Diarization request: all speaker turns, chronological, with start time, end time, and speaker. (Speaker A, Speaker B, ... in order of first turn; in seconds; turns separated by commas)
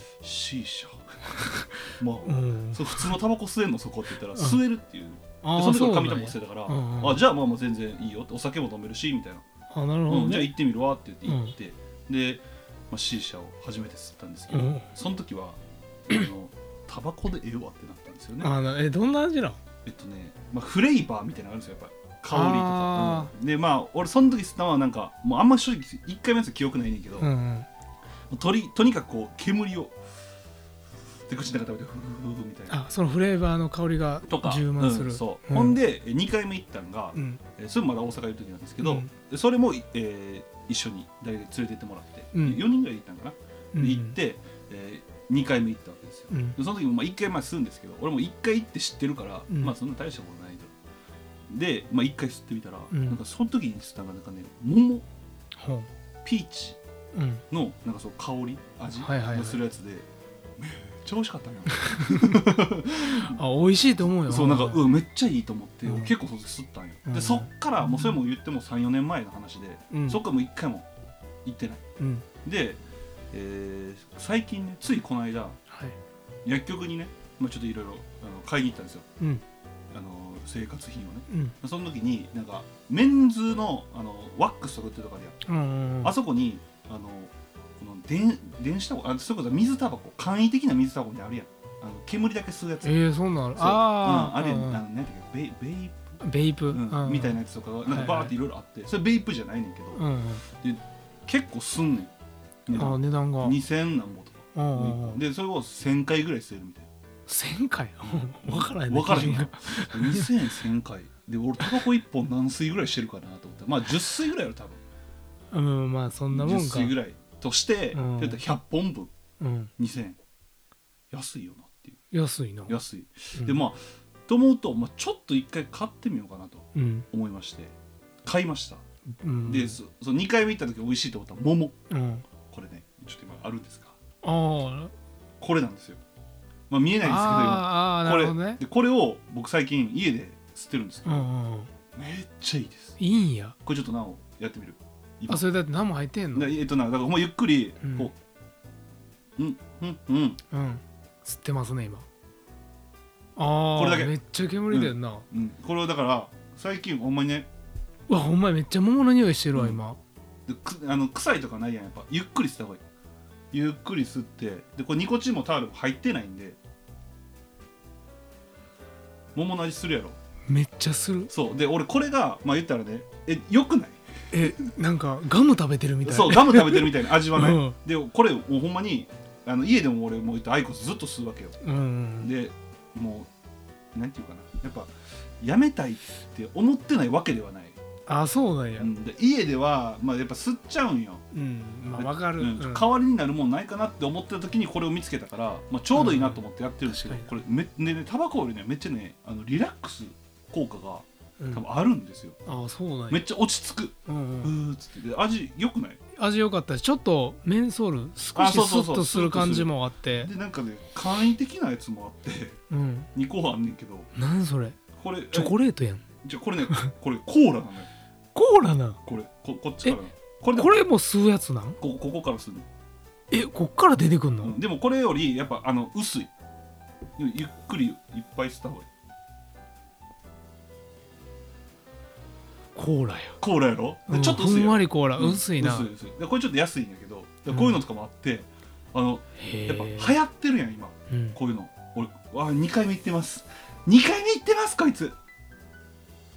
Speaker A: 0.2-9.4, Speaker B: 2.2-3.1, Speaker B: 4.3-4.6, Speaker B: 5.4-7.2, Speaker B: 9.7-10.6, Speaker A: 10.1-18.5, Speaker B: 11.3-11.5, Speaker B: 14.5-14.9, Speaker B: 18.4-19.6, Speaker A: 19.8-27.3, Speaker B: 22.3-23.3, Speaker B: 27.2-27.7, Speaker A: 28.3-30.0, Speaker A: 31.3-32.8, Speaker B: 32.7-35.8, Speaker A: 34.3-50.7, Speaker B: 37.1-37.4, Speaker B: 38.8-39.1, Speaker B: 42.3-42.6, Speaker B: 43.7-44.1, Speaker B: 46.3-46.6, Speaker B: 49.5-49.7, Speaker A: 51.5-55.0, Speaker B: 52.9-53.2, Speaker B: 55.6-55.9, Speaker A: 56.2-56.8, Speaker B: 57.1-57.4, Speaker A: 57.5-60.0, Speaker B: 59.0-59.6, Speaker A: 60.6-63.4, Speaker B: 61.8-62.5, Speaker B: 63.0-64.8, Speaker A: 64.3-70.8, Speaker B: 65.8-66.1, Speaker B: 67.0-68.1, Speaker B: 69.9-70.2, Speaker A: 71.4-71.8, Speaker B: 72.0-72.2, Speaker A: 72.4-72.8, Speaker A: 73.3-75.6, Speaker B: 75.7-76.0, Speaker A: 76.4-79.0, Speaker A: 79.9-85.3, Speaker B: 81.3-81.5, Speaker B: 85.5-86.1, Speaker A: 86.0-93.0, Speaker B: 92.8-94.8, Speaker A: 93.5-96.1, Speaker B: 96.2-98.3, Speaker A: 96.7-100.0, Speaker B: 99.9-100.4, Speaker A: 100.6-102.1, Speaker A: 102.7-106.9, Speaker B: 102.7-103.6, Speaker B: 104.5-105.2, Speaker B: 107.3-110.3, Speaker A: 108.0-114.8, Speaker B: 115.5-116.9, Speaker A: 116.3-119.1, Speaker B: 117.9-118.4, Speaker B: 119.4-119.7, Speaker A: 119.8-120.2, Speaker A: 121.1-122.0, Speaker B: 122.1-122.8, Speaker A: 122.7-127.7, Speaker B: 123.3-123.6, Speaker B: 126.7-127.0, Speaker A: 128.2-128.8, Speaker B: 129.2-129.8, Speaker A: 129.4-131.8, Speaker B: 131.9-132.2, Speaker A: 132.5-133.9, Speaker B: 134.2-134.9, Speaker A: 135.4-136.0, Speaker A: 136.7-141.3, Speaker B: 137.0-138.6, Speaker B: 141.0-141.7, Speaker A: 141.9-143.0, Speaker B: 143.0-143.6, Speaker A: 143.6-145.4, Speaker B: 145.3-146.5, Speaker A: 146.3-148.2, Speaker B: 147.8-148.1, Speaker A: 149.4-150.4, Speaker B: 150.5-152.0, Speaker B: 153.3-155.2, Speaker A: 153.7-154.1, Speaker A: 154.7-157.5, Speaker B: 158.1-160.0, Speaker A: 160.5-162.8, Speaker A: 163.5-166.6, Speaker A: 169.3-170.2, Speaker B: 170.5-171.3, Speaker A: 171.3-174.0, Speaker B: 174.3-177.8, Speaker A: 176.0-181.6, Speaker B: 181.6-182.3, Speaker A: 182.2-183.3, Speaker A: 183.9-187.8, Speaker B: 188.1-188.9, Speaker A: 188.8-191.2, Speaker B: 191.3-192.9, Speaker A: 191.9-202.3, Speaker B: 195.9-197.3, Speaker B: 201.4-201.6, Speaker B: 202.4-203.2, Speaker A: 203.1-206.0, Speaker B: 204.1-204.5, Speaker B: 206.2-210.3, Speaker A: 208.3-212.6, Speaker B: 212.7-213.1, Speaker A: 213.1-214.1, Speaker B: 214.1-214.8, Speaker A: 215.0-215.6, Speaker B: 215.3-216.0, Speaker A: 216.2-217.9, Speaker B: 218.3-219.0, Speaker A: 219.1-220.7, Speaker B: 220.5-221.8, Speaker A: 221.8-222.7, Speaker B: 223.3-224.6, Speaker A: 224.4-226.3, Speaker A: 227.2-228.9, Speaker B: 232.7-233.4, Speaker A: 233.4-245.2, Speaker B: 234.1-235.9, Speaker B: 237.5-237.8, Speaker B: 239.4-240.2, Speaker B: 241.1-241.4